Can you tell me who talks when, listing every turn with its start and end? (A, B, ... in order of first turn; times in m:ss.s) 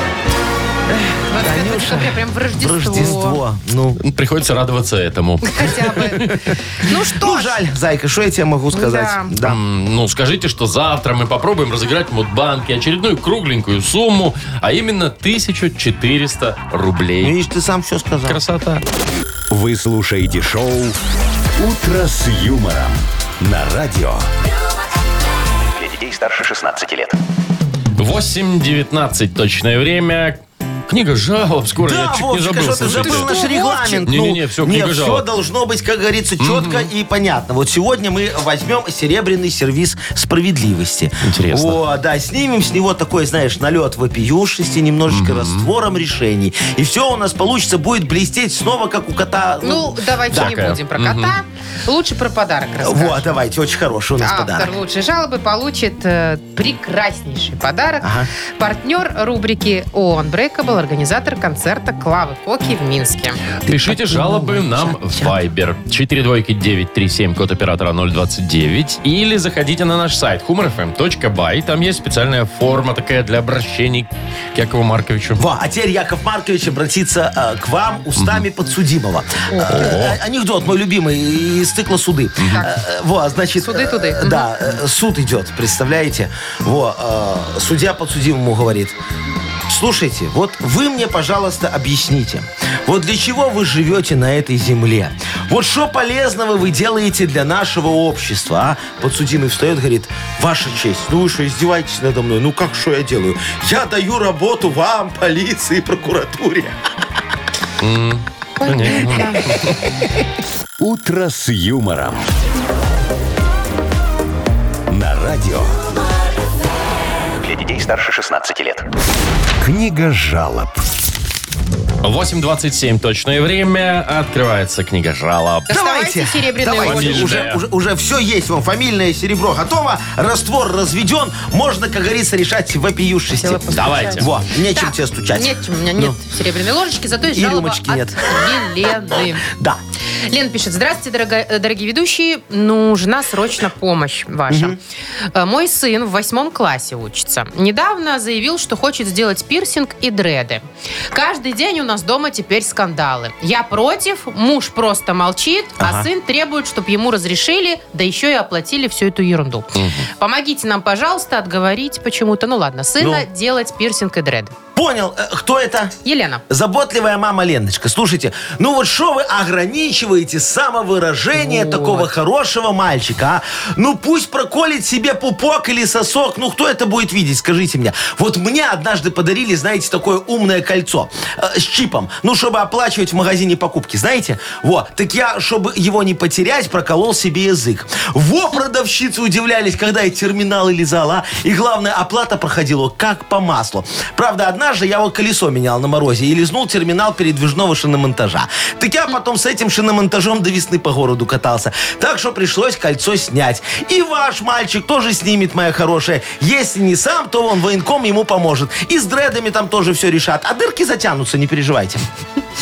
0:00.9-0:04.0 A
0:01.3-0:03.4 B
0:04.0-0:06.4 C
0:05.5-0:07.6 B
0:07.2-0:09.6 A
0:08.7-0:09.3 B
0:09.4-0:17.4 C
0:17.2-0:18.4 A
0:18.2-0:18.8 C
0:19.5-0:21.0 D
0:21.6-0:24.3 D
0:25.8-0:27.2 E
0:28.0-0:33.3 C
0:31.8-0:50.6 A
0:32.9-0:34.1 B
0:34.1-0:35.2 C
0:36.4-0:36.9 C
0:41.2-0:41.8 C
0:45.1-0:45.7 C
0:49.6-0:53.4 B
0:50.3-0:51.4 C
0:52.8-0:54.8 A
0:54.2-1:03.4 B
0:58.0-0:58.3 A
1:03.7-1:04.9 A
1:03.7-1:15.4 C
1:04.5-1:04.9 B
1:15.4-1:29.0 A
1:18.2-1:18.4 C
1:19.5-1:19.9 B
1:19.7-1:20.2 C
1:22.4-1:22.6 C
1:23.6-1:24.5 B
1:29.7-1:46.8 A
1:47.8-1:49.8 C
1:48.6-1:49.5 B
1:50.8-1:52.3 D
1:54.9-1:55.8 D
1:57.4-1:58.9 E
1:59.6-2:00.8 D
2:02.0-2:05.7 C
2:05.7-2:07.5 B
2:05.7-2:16.2 A
2:06.8-2:07.6 C
2:13.4-2:19.5 B
2:13.7-2:14.3 C
2:17.3-2:19.8 A
2:20.3-2:24.8 B
2:24.5-2:24.8 A
2:25.3-2:44.5 B
2:35.8-2:36.1 A
2:39.8-2:40.1 C
2:43.0-2:43.3 A
2:44.8-2:45.9 A
2:46.0-2:46.4 B
2:46.5-3:32.0 A
2:51.4-2:52.1 B